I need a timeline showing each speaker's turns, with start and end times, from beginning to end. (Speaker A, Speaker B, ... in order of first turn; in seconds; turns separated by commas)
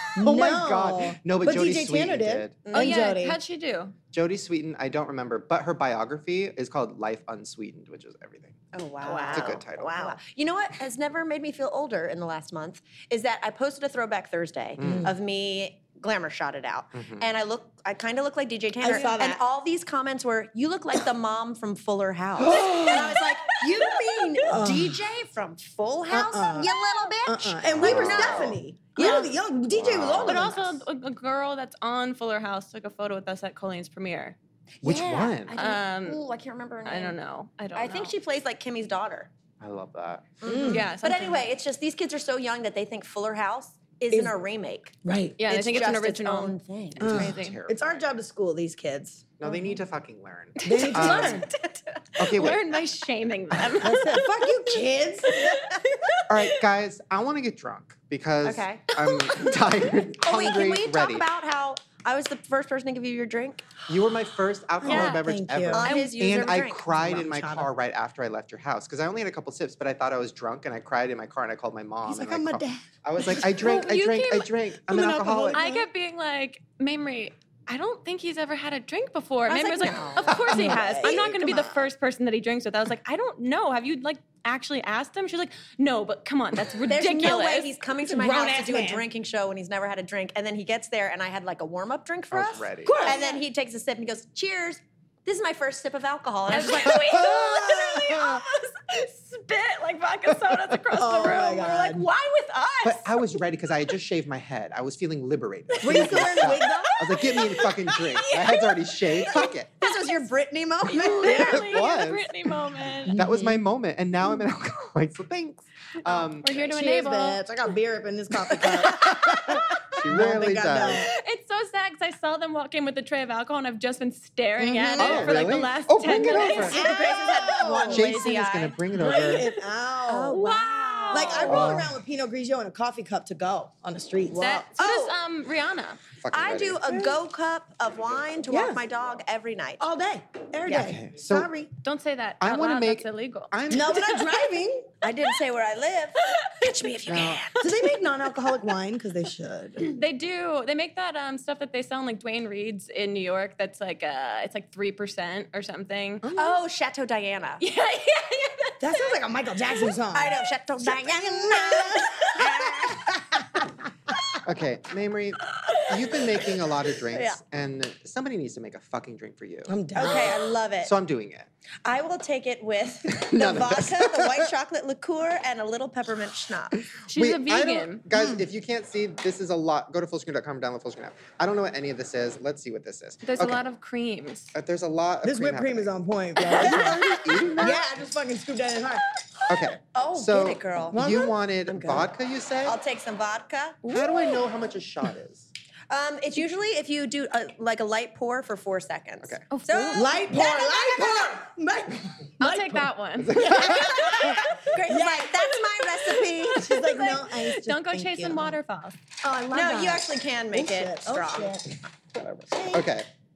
Speaker A: 0.1-3.4, Speaker B: 0.2-2.6, Speaker C: 2.6-3.0, Speaker D: 2.7-4.0, Speaker B: 4.1-8.6, Speaker C: 8.7-29.3, Speaker A: 9.1-9.5, Speaker B: 9.2-10.2, Speaker B: 14.8-15.1, Speaker A: 14.8-15.1, Speaker B: 16.9-17.3, Speaker A: 18.8-19.4, Speaker A: 22.4-23.2, Speaker D: 23.6-24.5, Speaker A: 24.5-25.0, Speaker A: 26.1-26.7, Speaker A: 27.2-30.7, Speaker B: 27.8-28.6, Speaker D: 29.0-29.3, Speaker B: 29.7-30.7, Speaker D: 30.2-34.4, Speaker C: 34.8-37.2, Speaker B: 34.8-35.5, Speaker D: 35.5-36.2, Speaker D: 36.8-38.1, Speaker C: 37.7-39.3, Speaker B: 39.6-40.4, Speaker C: 40.4-47.2, Speaker A: 40.4-40.9, Speaker D: 40.7-41.5, Speaker A: 44.1-44.4, Speaker A: 45.0-45.4, Speaker D: 45.4-47.6, Speaker B: 47.0-48.1, Speaker A: 47.0-49.3, Speaker B: 49.4-51.5, Speaker D: 50.6-56.6, Speaker A: 50.6-51.5, Speaker B: 52.2-52.7, Speaker B: 53.5-53.8, Speaker A: 53.8-55.5, Speaker B: 56.3-61.2, Speaker C: 58.4-58.9, Speaker D: 58.9-59.7, Speaker C: 60.2-63.7, Speaker B: 63.9-75.6, Speaker A: 64.8-65.9, Speaker D: 64.9-65.2, Speaker C: 64.9-65.1, Speaker C: 65.7-66.9, Speaker D: 65.8-66.1, Speaker A: 66.9-67.7, Speaker A: 72.0-72.8, Speaker D: 73.4-87.7, Speaker A: 75.2-75.9, Speaker C: 79.5-81.8, Speaker B: 80.3-80.7, Speaker A: 80.5-81.2, Speaker C: 86.9-97.3, Speaker A: 88.0-89.0, Speaker B: 92.3-93.0, Speaker A: 92.8-93.3, Speaker D: 93.0-93.4, Speaker D: 96.5-101.9, Speaker B: 96.9-97.4, Speaker A: 97.2-97.5, Speaker B: 100.5-100.8, Speaker A: 100.9-102.0, Speaker C: 101.2-103.2, Speaker B: 102.8-109.9, Speaker A: 105.8-106.9, Speaker D: 107.0-109.2, Speaker C: 107.5-108.7, Speaker C: 109.2-111.9, Speaker D: 110.9-113.2, Speaker B: 111.5-112.3, Speaker A: 113.0-113.6, Speaker B: 113.1-116.6, Speaker D: 116.0-117.4, Speaker A: 116.6-119.5, Speaker B: 119.0-121.1, Speaker A: 120.1-121.1, Speaker D: 120.9-128.1, Speaker A: 124.6-125.4, Speaker B: 125.0-126.8, Speaker C: 126.5-128.8, Speaker A: 126.7-128.1, Speaker B: 127.9-129.5, Speaker A: 128.9-130.4, Speaker D: 129.1-129.3, Speaker C: 130.1-131.7, Speaker D: 130.3-131.7, Speaker A: 131.1-134.7, Speaker B: 131.5-131.9, Speaker D: 134.3-136.0, Speaker C: 134.8-135.2, Speaker B: 136.2-137.0, Speaker C: 136.3-139.8, Speaker A: 138.5-138.8, Speaker A: 139.8-141.7, Speaker C: 140.7-140.9, Speaker B: 140.7-141.5, Speaker D: 141.8-144.3, Speaker B: 142.4-144.2, Speaker A: 143.7-144.9, Speaker C: 145.0-147.7, Speaker B: 147.1-147.4, Speaker A: 147.6-149.9, Speaker D: 149.8-156.3, Speaker A: 156.2-156.6, Speaker C: 156.3-157.6, Speaker D: 157.6-158.8, Speaker A: 158.8-164.3, Speaker C: 160.1-163.1, Speaker B: 164.4-170.3, Speaker C: 167.1-167.4, Speaker A: 169.7-170.5, Speaker C: 169.9-170.9, Speaker B: 170.8-171.5, Speaker C: 171.8-176.8, Speaker B: 173.1-174.5, Speaker D: 177.1-178.0, Speaker B: 177.1-183.6, Speaker A: 178.1-178.4, Speaker D: 183.2-184.5, Speaker B: 184.5-187.9, Speaker A: 185.2-189.0, Speaker B: 189.5-192.8, Speaker C: 189.6-192.1, Speaker A: 190.9-191.3, Speaker C: 192.6-193.9, Speaker D: 193.8-194.3, Speaker B: 193.8-195.5, Speaker C: 195.9-201.4, Speaker D: 199.5-200.1, Speaker A: 199.9-205.5, Speaker D: 202.4-204.5, Speaker B: 203.2-204.3, Speaker C: 204.2-206.7, Speaker D: 205.5-208.9, Speaker A: 206.5-208.6, Speaker A: 209.2-211.8, Speaker C: 209.5-211.6, Speaker A: 212.4-212.9, Speaker B: 212.7-213.1